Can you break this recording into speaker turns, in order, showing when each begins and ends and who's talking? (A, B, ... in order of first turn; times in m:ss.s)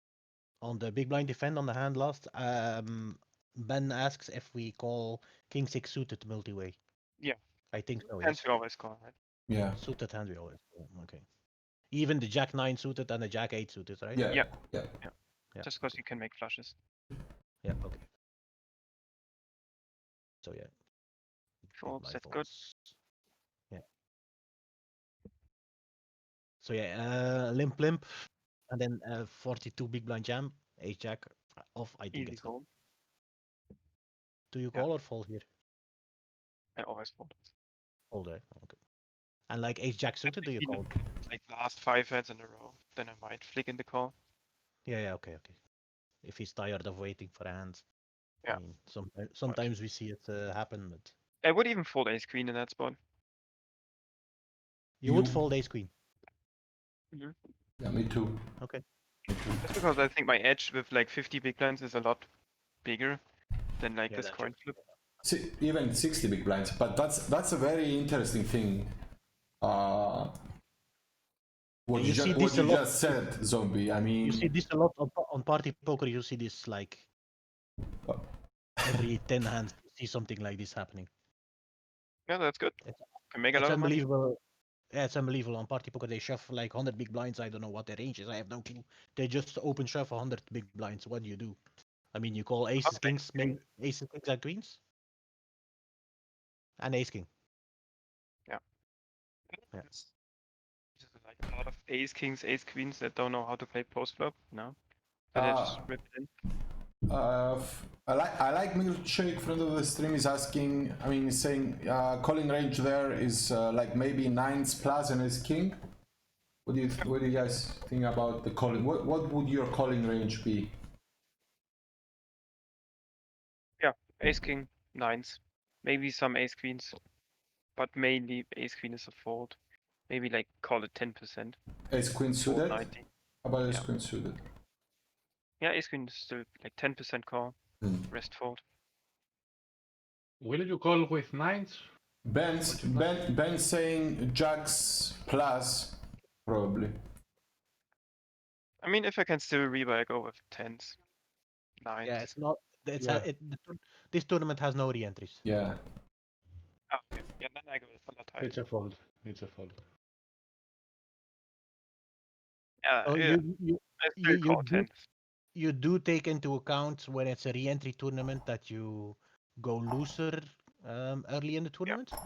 0:00.6-0:06.8 A
0:07.7-0:08.5 A
0:08.0-0:09.1 B
0:09.5-0:09.8 C
0:09.7-0:11.3 A
0:11.9-0:14.2 A
0:14.1-0:15.0 C
0:14.3-0:16.8 B
0:15.5-0:16.0 A
0:17.6-0:18.1 A
0:20.4-0:20.8 A
0:21.6-0:23.0 A
0:21.8-0:22.5 B
0:26.6-0:28.1 A
0:28.7-0:32.6 A
0:32.1-0:32.7 B
0:34.5-0:35.5 A
0:36.8-0:37.5 B
0:38.1-0:38.8 A
0:39.5-0:41.0 A
0:40.2-0:44.1 B
0:44.8-0:45.6 A
0:46.2-0:47.9 A
0:48.5-0:51.2 A
0:51.4-0:53.0 B
0:55.0-0:55.9 A
0:55.0-0:55.4 C
0:57.8-0:58.4 C
0:59.3-0:59.6 C
0:59.6-1:02.3 B
1:02.8-1:03.2 B
1:03.8-1:04.8 B
1:04.1-1:04.9 A
1:05.2-1:08.9 C
1:09.6-1:10.3 C
1:11.9-1:14.5 C
1:11.9-1:13.2 A
1:14.2-1:17.1 A
1:18.8-1:19.1 C
1:18.8-1:21.1 A
1:22.3-1:22.8 B
1:22.8-1:24.4 A
1:23.3-1:24.0 B
1:24.9-1:31.6 A
1:32.1-1:34.8 A
1:32.8-1:33.6 B
1:36.8-1:37.3 A
1:39.5-1:40.1 B
1:41.0-1:44.8 B
1:45.3-1:46.3 B
1:45.4-1:45.8 C
1:47.1-1:55.8 C
1:56.7-2:00.7 C
2:03.8-2:07.0 B
2:07.8-2:09.6 B
2:10.1-2:11.6 B
2:11.9-2:12.9 C
2:12.4-2:13.1 B
2:13.4-2:14.4 C
2:15.6-2:17.6 B
2:17.8-2:18.1 C
2:18.1-2:18.6 B
2:20.4-2:21.9 D
2:22.2-2:27.0 C
2:28.8-2:31.0 B
2:31.8-2:32.3 B
2:32.0-2:35.4 A
2:33.0-2:33.3 D
2:35.4-2:35.8 C
2:36.9-2:38.5 B
2:38.4-2:39.8 D
2:42.8-2:43.4 B
2:43.0-2:44.9 A
2:44.0-2:45.1 B
2:45.5-2:52.1 A